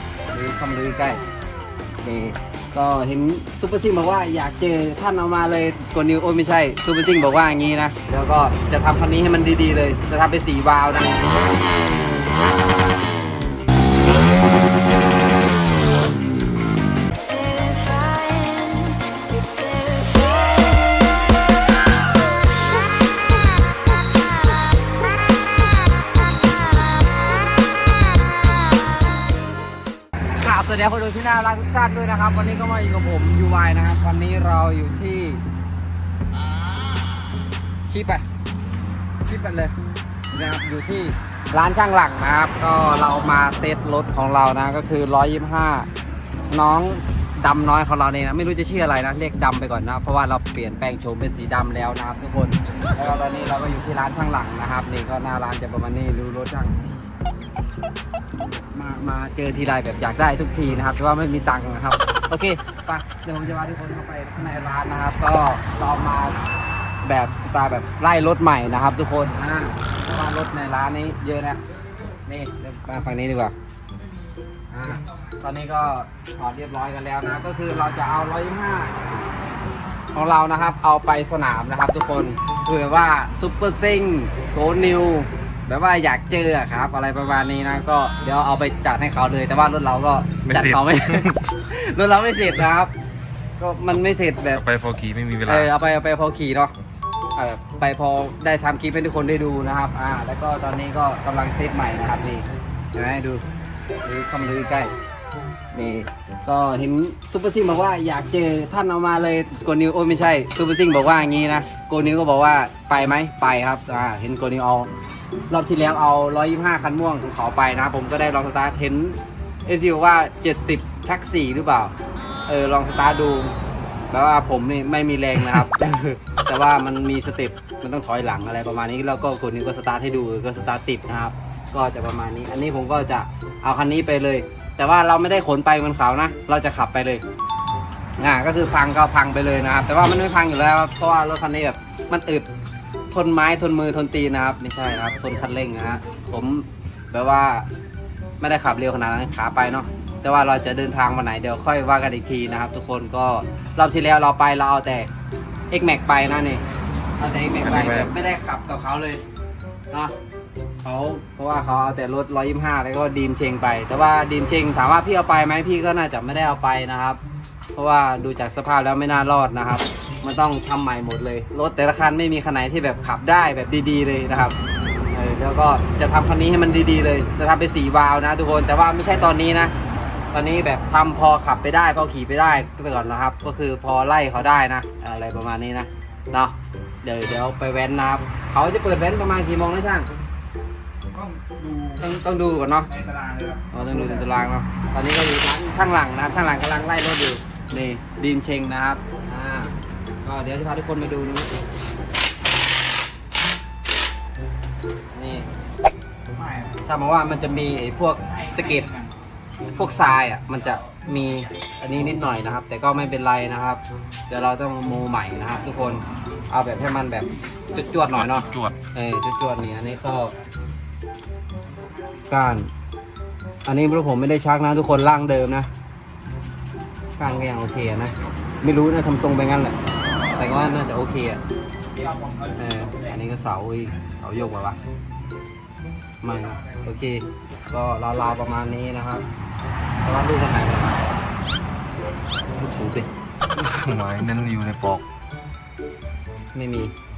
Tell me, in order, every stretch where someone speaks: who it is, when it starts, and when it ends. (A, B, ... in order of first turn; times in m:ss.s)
0:00.3-0:01.2 A
0:02.0-0:11.3 A
0:30.4-0:35.4 A
0:37.9-0:38.2 A
0:39.2-0:39.8 A
0:40.3-0:45.9 A
0:46.5-0:57.0 A
0:58.5-1:06.4 A
1:07.0-1:11.6 A
1:12.3-1:13.5 A
1:14.7-1:19.0 A
1:20.1-1:32.9 A
1:30.5-1:31.3 B
1:33.6-1:34.6 A
1:34.6-1:35.7 B
1:35.4-1:36.7 A
1:37.4-1:43.4 A
1:44.0-1:44.9 A
1:45.7-1:54.9 A
1:55.5-2:01.9 A
2:02.5-2:03.5 A
2:04.1-2:17.2 A
2:18.2-2:22.5 A
2:23.1-2:27.7 A
2:28.4-2:35.1 A
2:35.7-2:36.6 A
2:37.2-2:39.2 A
2:37.6-2:38.1 B
2:40.8-2:47.2 A
2:47.7-2:54.6 A
2:55.1-2:59.7 A
3:00.3-3:10.1 A
3:11.1-3:12.0 C
3:12.0-3:12.9 A
3:12.9-3:14.2 C
3:13.7-3:21.5 A
3:25.1-3:25.5 A
3:26.3-3:26.8 C
3:26.8-3:28.9 A
3:28.3-3:29.1 C
3:29.8-3:40.3 A
3:38.1-3:38.8 B
3:42.3-3:42.7 A
3:43.6-3:45.7 A
3:47.2-3:49.8 A
3:50.3-3:51.4 A
3:51.9-3:53.2 C
3:52.6-3:54.8 A
3:56.2-3:59.2 A
4:00.0-4:01.0 A
4:02.6-4:03.1 A
4:03.6-4:05.0 B
4:06.5-4:06.9 A